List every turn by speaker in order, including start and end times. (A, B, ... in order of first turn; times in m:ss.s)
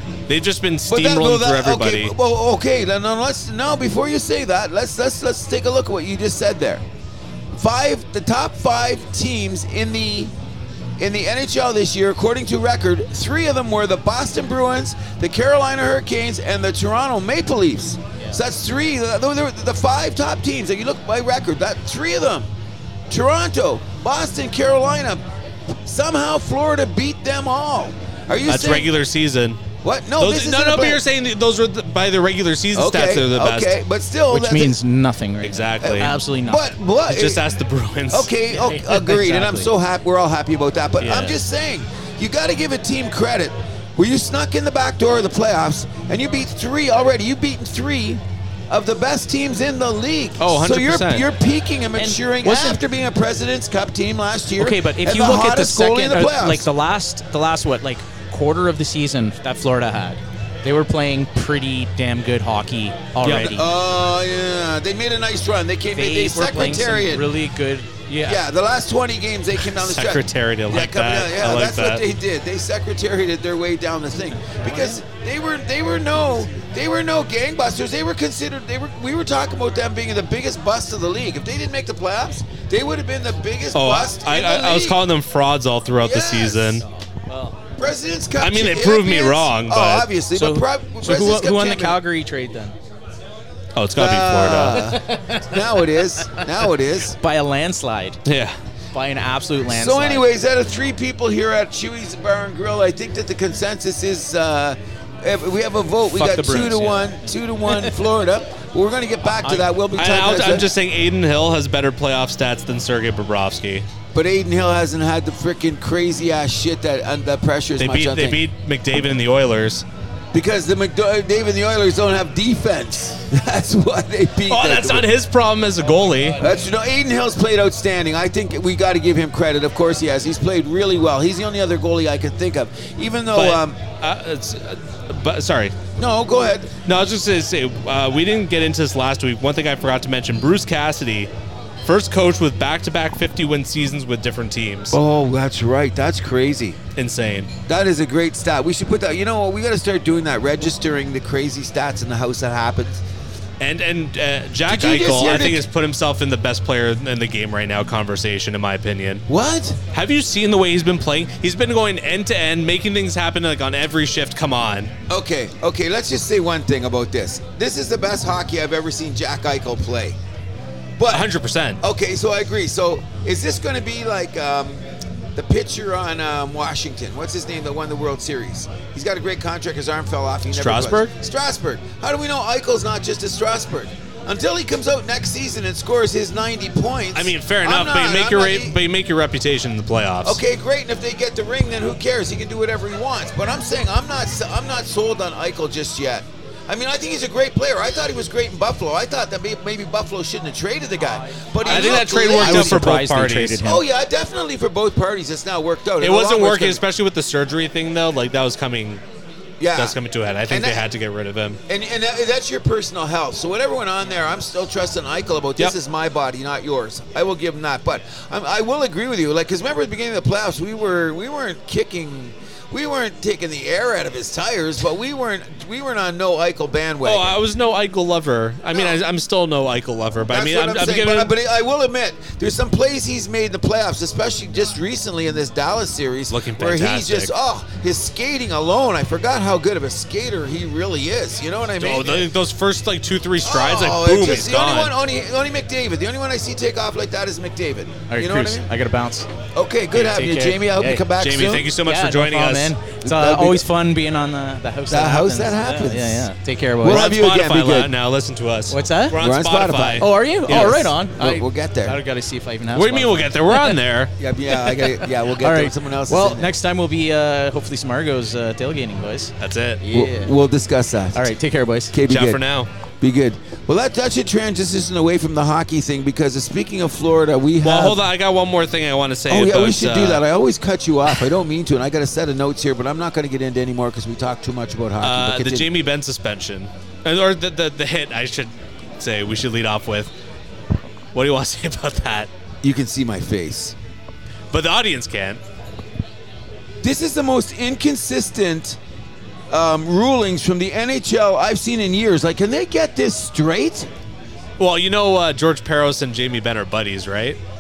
0:00.3-0:02.1 A
0:00.9-0:06.8 B
0:07.5-0:10.3 B
0:11.0-0:22.5 B
0:23.1-0:25.2 B
0:25.8-0:28.9 B
0:28.4-0:29.6 A
0:29.8-0:31.0 B
0:30.2-0:33.8 A
0:32.7-0:34.8 B
0:34.3-0:36.6 C
0:35.4-0:36.2 A
0:35.8-0:37.4 B
0:37.1-0:38.3 A
0:38.1-0:56.7 B
0:38.5-0:39.7 C
0:41.0-0:41.4 A
0:50.4-0:51.3 A
0:52.0-0:52.8 C
0:54.6-1:03.7 C
1:03.2-1:03.5 A
1:03.2-1:07.3 B
1:05.9-1:08.4 C
1:08.2-1:25.0 B
1:09.6-1:12.0 A
1:14.6-1:15.0 C
1:23.7-1:26.8 A
1:26.0-1:26.8 B
1:27.3-1:27.6 C
1:27.8-1:32.0 B
1:28.4-1:30.1 A
1:30.3-1:32.8 C
1:33.8-1:35.0 A
1:34.0-1:37.2 B
1:34.9-1:35.6 C
1:37.2-1:38.2 C
1:38.3-1:38.6 A
1:38.9-1:40.3 C
1:39.7-1:50.7 B
1:46.1-1:48.0 C
1:49.4-1:49.7 C
1:49.9-1:53.8 A
1:54.1-1:58.4 B
1:57.8-1:59.8 A
2:00.3-2:05.1 B
2:04.5-2:06.4 A
2:06.4-2:13.8 B
2:13.3-2:15.8 A
2:16.0-2:16.7 B
2:16.9-2:21.3 A
2:21.8-2:25.0 A
2:24.9-2:26.8 B
2:27.0-2:27.5 A
2:27.7-2:33.0 B
2:33.6-2:39.2 A
2:34.7-2:35.6 B
2:39.3-2:39.8 B
2:39.9-2:44.9 A
2:45.1-2:50.2 B
2:51.0-2:51.2 B
2:51.1-2:51.8 A
2:51.8-2:54.8 B
2:55.4-3:08.8 B
3:00.5-3:01.1 A
3:07.1-3:10.4 A
3:10.2-3:22.8 B
3:21.1-3:23.8 C
3:21.7-3:23.7 A
3:23.6-3:26.8 B
3:26.0-3:29.0 A
3:29.6-3:30.0 B
3:29.7-3:31.6 A
3:30.5-3:30.8 B
3:31.7-3:47.4 B
3:47.0-3:51.4 A
3:48.7-3:49.0 B
3:50.3-4:02.3 B
3:56.3-3:57.3 A
4:01.8-4:04.9 A
4:03.4-4:08.7 B
4:08.1-4:09.3 C
4:09.6-4:11.7 B
4:09.9-4:11.0 C
4:11.1-4:12.7 A
4:11.8-4:17.1 C
4:13.0-4:13.6 B
4:14.9-4:16.3 B
4:16.8-4:17.9 B
4:16.8-4:20.9 A
4:18.7-4:19.2 C
4:19.1-4:22.0 B
4:20.0-4:23.8 C
4:22.7-4:24.1 A
4:24.2-4:26.5 B
4:24.7-4:30.3 C
4:29.4-4:29.8 A
4:29.9-4:31.3 B
4:31.1-4:31.9 C
4:31.9-4:32.4 B
4:32.1-4:32.7 A
4:33.0-4:38.0 B
4:37.6-4:40.2 A
4:39.3-4:45.7 B
4:45.0-4:50.1 A
4:51.1-4:52.3 A
4:52.6-4:53.8 B
4:54.5-4:55.4 A
4:56.8-4:58.8 B
4:59.5-5:03.9 B
5:04.6-5:07.4 A